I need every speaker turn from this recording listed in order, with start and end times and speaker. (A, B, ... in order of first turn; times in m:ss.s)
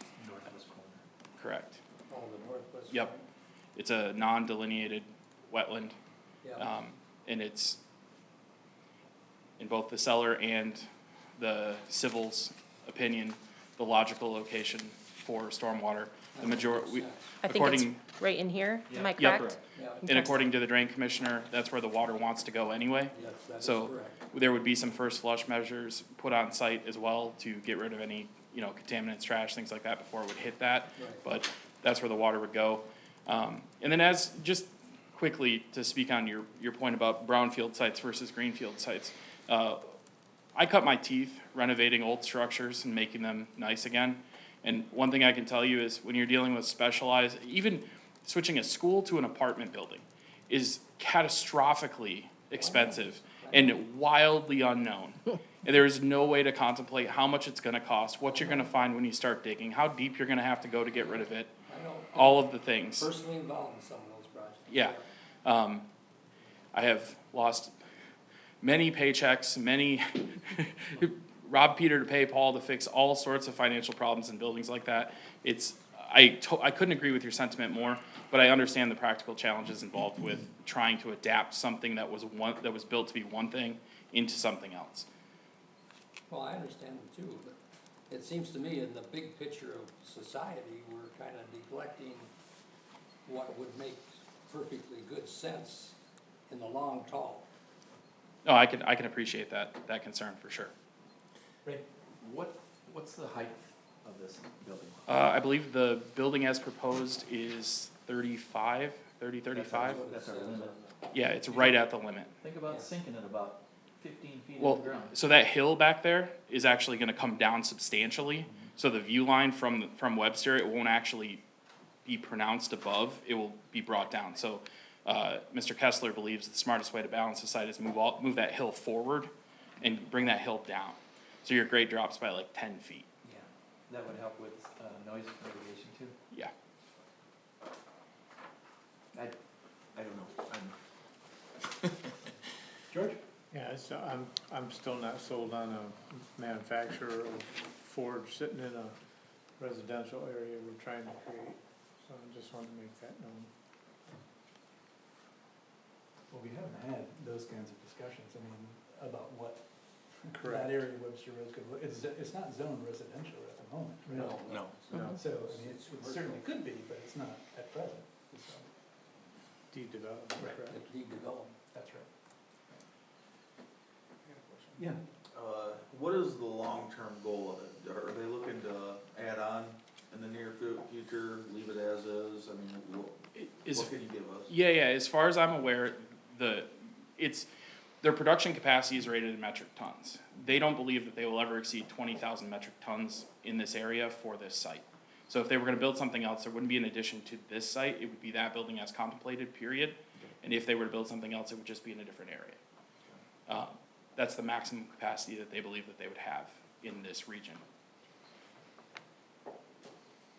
0:00.2-0:00.7 A
0:01.4-0:01.8 B
0:02.1-0:03.2 C
0:03.8-0:06.0 B
0:06.6-0:07.8 B
0:09.6-0:10.8 B
0:11.4-0:18.0 B
0:16.3-0:17.3 C
0:17.4-0:20.4 D
0:18.9-0:19.6 A
0:19.1-0:19.5 B
0:19.7-0:20.1 C
0:20.0-0:39.9 B
0:23.1-0:24.2 C
0:31.0-0:31.2 C
0:40.5-1:01.5 B
0:52.5-0:53.8 C
0:58.3-0:58.7 C
1:01.7-1:05.0 C
1:02.1-1:03.1 B
1:04.7-1:05.8 B
1:06.7-1:07.7 B
1:08.6-1:25.1 B
1:26.3-1:27.5 C
1:28.1-1:32.3 C
1:33.2-1:35.9 C
1:36.5-1:37.4 C
1:38.4-1:40.7 B
1:41.6-1:45.1 A
1:45.0-1:50.1 B
1:49.5-1:50.8 A
1:49.7-1:51.0 C
1:51.1-1:52.3 B
1:52.4-1:55.1 A
1:52.6-1:52.9 C
1:54.6-2:01.4 B
2:02.0-2:09.3 B
2:09.8-2:13.1 B
2:13.2-2:16.1 A
2:19.9-2:20.7 A
2:22.9-2:23.2 E
2:23.5-2:28.9 F
2:29.6-2:33.5 F
2:36.3-2:44.4 E
2:40.4-2:40.8 F
2:44.1-2:46.5 C
2:45.1-2:48.7 E
2:49.7-2:50.8 F
2:50.5-2:51.5 C
2:51.7-2:52.1 E
2:54.2-2:54.8 F
2:54.8-2:55.0 E
2:55.4-3:03.1 G
3:03.3-3:07.5 B
3:03.8-3:04.4 G
3:08.0-3:22.6 B
3:23.5-3:27.6 B